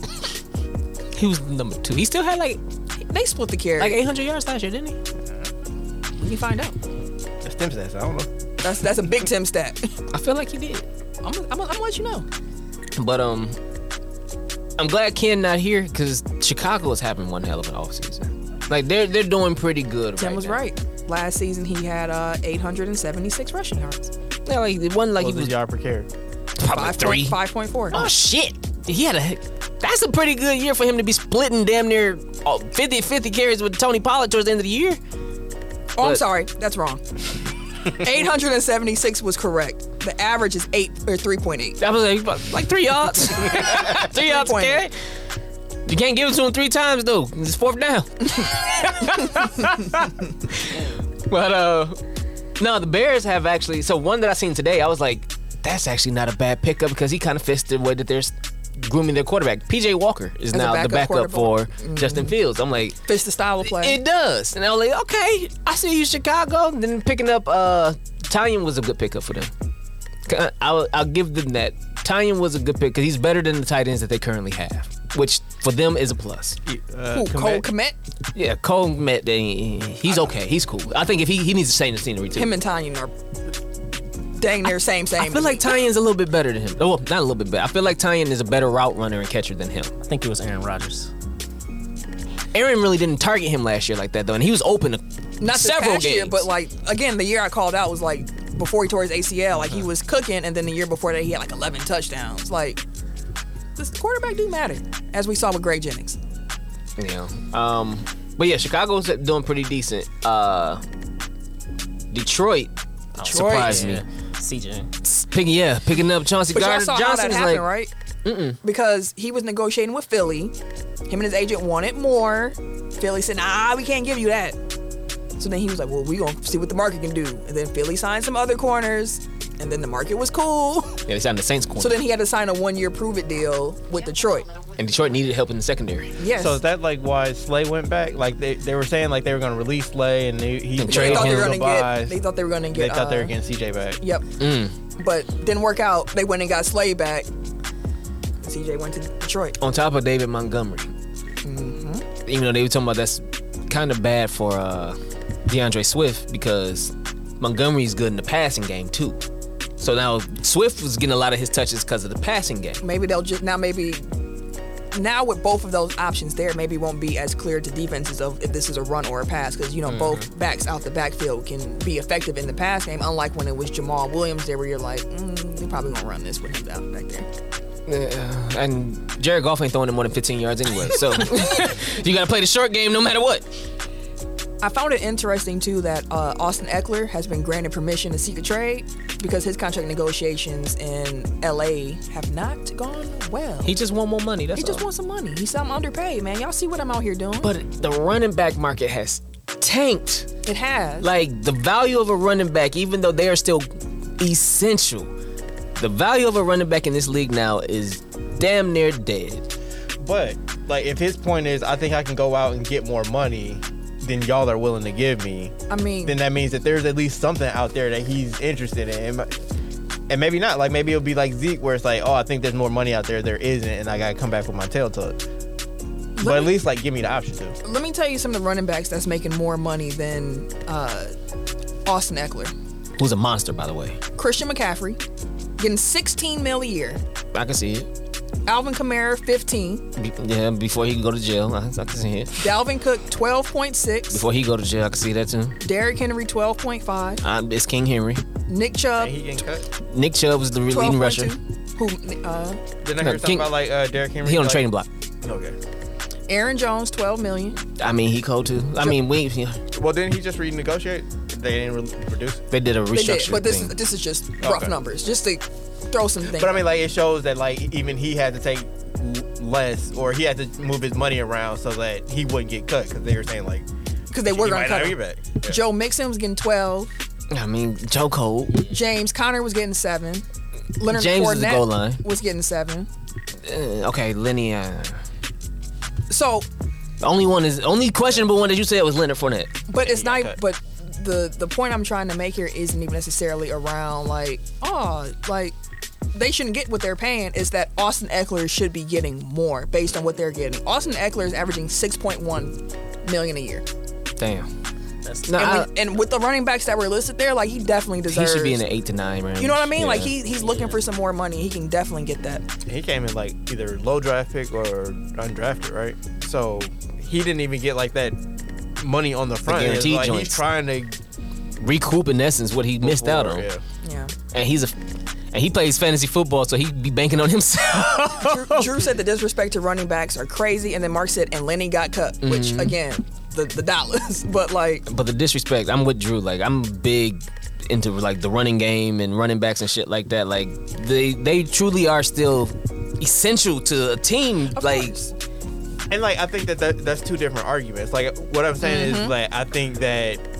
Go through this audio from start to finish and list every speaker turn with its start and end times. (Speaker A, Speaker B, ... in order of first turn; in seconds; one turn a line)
Speaker A: 1.1-2.6
Speaker B: 3.1-4.0
Speaker A: 3.8-5.0
Speaker B: 6.2-6.8
Speaker C: 7.4-8.3
Speaker B: 8.6-9.9
Speaker A: 10.1-10.8
Speaker B: 11.2-12.2
Speaker A: 12.9-13.6
Speaker A: 14.8-20.6
Speaker B: 20.2-24.1
Speaker A: 24.4-25.5
Speaker C: 25.2-26.1
Speaker A: 26.6-27.4
Speaker B: 26.6-28.1
Speaker A: 27.9-35.0
Speaker B: 36.0-37.0
Speaker B: 37.8-41.8
Speaker A: 41.8-44.9
Speaker B: 43.5-44.9
Speaker A: 45.9-52.0
Speaker A: 52.6-63.0
Speaker B: 60.5-62.3
Speaker B: 63.0-64.0
Speaker A: 63.6-69.5
Speaker A: 70.2-76.6
Speaker C: 76.7-77.7
Speaker B: 77.1-78.0
Speaker A: 78.3-82.5
Speaker B: 82.3-83.1
Speaker B: 84.4-85.7
Speaker A: 85.2-89.9
Speaker D: 90.0-91.1
Speaker A: 92.5-96.5
Speaker B: 95.4-102.8
Speaker B: 103.8-106.2
Speaker A: 107.0-110.8
Speaker A: 112.1-114.0
Speaker B: 113.2-113.9
Speaker D: 113.2-114.9
Speaker A: 115.0-117.7
Speaker B: 116.5-117.9
Speaker A: 118.2-118.6
Speaker B: 118.6-120.5
Speaker B: 121.1-124.6
Speaker B: 125.4-131.0
Speaker A: 131.1-132.0
Speaker B: 131.8-134.5
Speaker A: 134.8-136.2
Speaker B: 136.2-136.6
Speaker C: 136.3-142.2
Speaker A: 140.8-141.5
Speaker B: 140.8-143.3
Speaker C: 142.7-144.0
Speaker A: 144.4-144.7
Speaker B: 145.0-147.3
Speaker B: 148.4-149.6
Speaker A: 149.6-150.9
Speaker B: 151.4-152.1
Speaker A: 152.2-159.2
Speaker A: 159.8-162.8
Speaker B: 162.8-164.1
Speaker B: 164.9-177.3
Speaker A: 169.9-170.2
Speaker A: 177.9-183.5
Speaker B: 184.6-193.7
Speaker A: 193.6-194.8
Speaker B: 194.5-197.5
Speaker A: 197.4-200.3
Speaker B: 200.4-201.1
Speaker A: 201.0-203.7
Speaker A: 204.2-205.1
Speaker A: 205.8-209.4
Speaker C: 210.0-219.4
Speaker B: 215.7-216.2
Speaker C: 220.1-225.2
Speaker B: 226.2-226.6
Speaker C: 226.2-227.6
Speaker B: 227.6-231.1
Speaker B: 231.8-232.5
Speaker A: 233.0-234.0
Speaker B: 234.2-235.0
Speaker B: 235.6-237.0
Speaker A: 237.3-237.9
Speaker B: 238.5-239.8
Speaker A: 240.0-242.5
Speaker B: 242.4-244.2
Speaker A: 244.1-245.6
Speaker B: 245.6-247.2
Speaker A: 247.2-248.2
Speaker B: 248.5-249.1
Speaker C: 249.0-249.7
Speaker A: 249.9-251.3
Speaker B: 250.7-252.6
Speaker C: 252.8-254.7
Speaker A: 253.0-253.5
Speaker A: 254.2-254.9
Speaker C: 255.2-255.5
Speaker B: 256.3-257.6
Speaker A: 257.8-259.6
Speaker C: 259.7-262.4
Speaker A: 262.5-263.7
Speaker B: 262.9-266.6
Speaker C: 264.4-264.8
Speaker C: 266.3-273.7
Speaker B: 274.1-276.9
Speaker C: 274.2-275.6
Speaker A: 277.3-278.6
Speaker D: 278.5-278.8
Speaker B: 278.7-282.9
Speaker A: 280.9-282.0
Speaker A: 283.4-285.0
Speaker B: 286.1-286.5
Speaker A: 287.0-289.6
Speaker B: 289.7-295.6
Speaker C: 289.8-290.4
Speaker B: 296.1-303.6
Speaker A: 304.2-304.5
Speaker D: 305.0-305.5
Speaker A: 305.2-305.7
Speaker B: 305.4-308.6
Speaker A: 308.1-310.1
Speaker B: 309.4-312.4
Speaker D: 310.3-310.8
Speaker C: 312.7-318.2
Speaker C: 318.8-320.9
Speaker A: 319.4-320.4
Speaker A: 321.6-323.5
Speaker C: 322.8-323.6
Speaker B: 323.8-324.1
Speaker A: 324.3-324.7
Speaker A: 325.3-328.7
Speaker B: 328.2-334.9
Speaker A: 332.2-332.8
Speaker A: 334.9-344.9
Speaker B: 344.5-345.1
Speaker C: 345.9-350.2
Speaker B: 348.6-349.1